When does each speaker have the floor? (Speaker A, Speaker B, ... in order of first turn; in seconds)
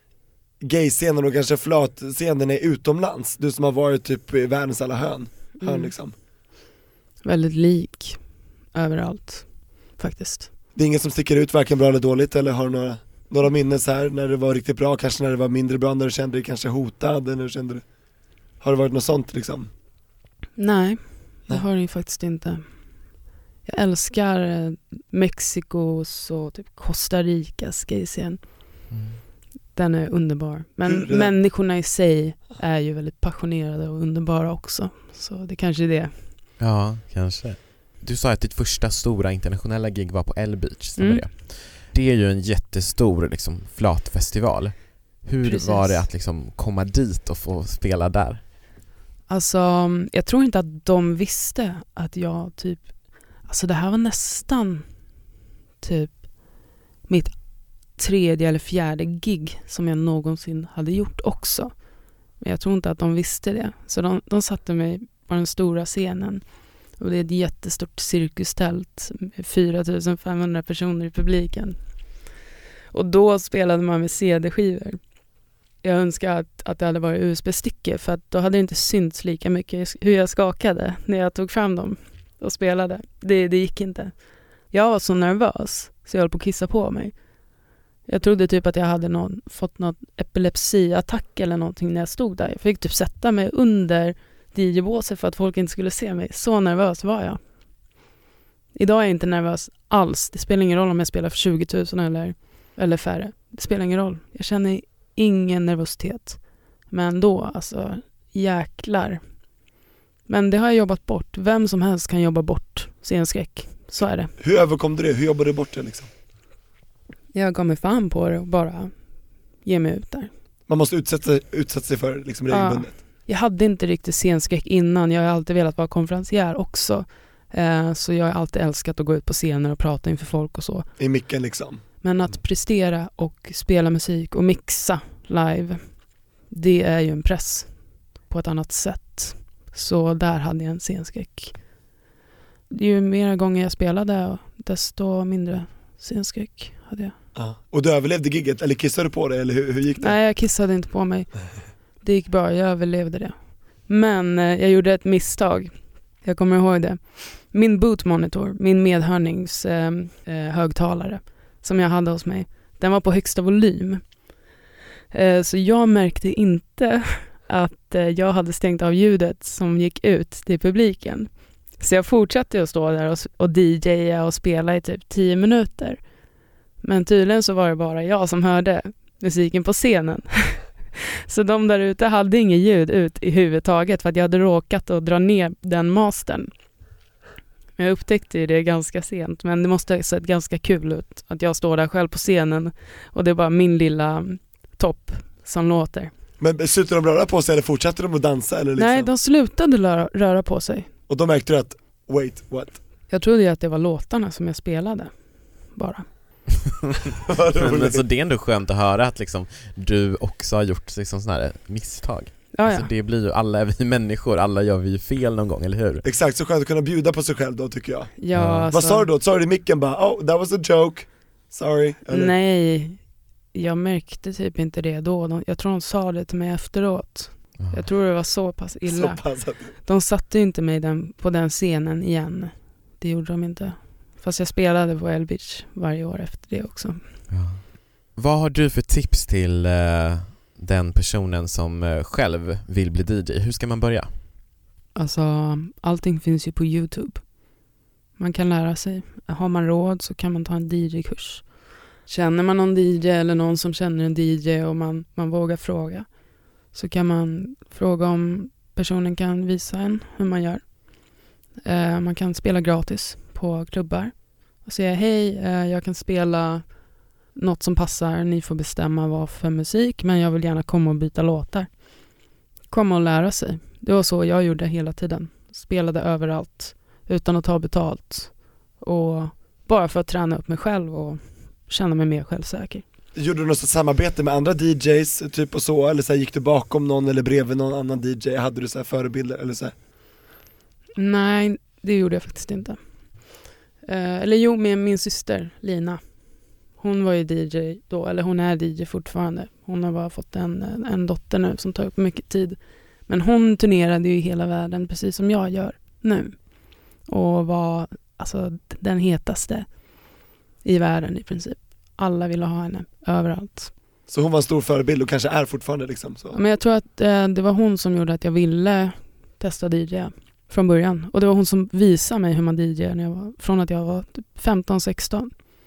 Speaker A: 0.6-6.2, 10.8-17.9, 18.6-19.7, 30.8-31.4, 114.4-116.1, 120.7-123.0, 131.0-131.8, 147.3-150.5, 196.4-199.1, 201.1-202.8, 207.3-208.1, 216.0-222.3, 228.9-229.7, 283.1-289.7, 314.1-316.4
Speaker B: 5.6-5.9, 7.2-10.5, 20.6-28.5, 29.7-36.2, 41.0-41.3, 45.4-46.0, 49.3-55.2, 55.8-72.1, 72.9-75.0, 75.8-87.3, 88.1-97.9, 98.8-109.7, 110.3-114.3, 117.3-120.3, 122.5-130.9, 132.0-141.9, 142.7-147.1, 150.0-164.3, 165.1-176.1, 176.8-186.5, 187.8-196.1, 198.8-200.9, 203.1-206.1, 212.5-212.9, 218.2-219.1, 222.1-237.0, 244.9-247.6, 248.2-282.9, 291.0-313.7, 316.3-325.3
Speaker C: 28.9-29.2, 36.6-48.4, 207.1-216.0, 218.3-218.7, 227.6-227.9, 237.3-244.2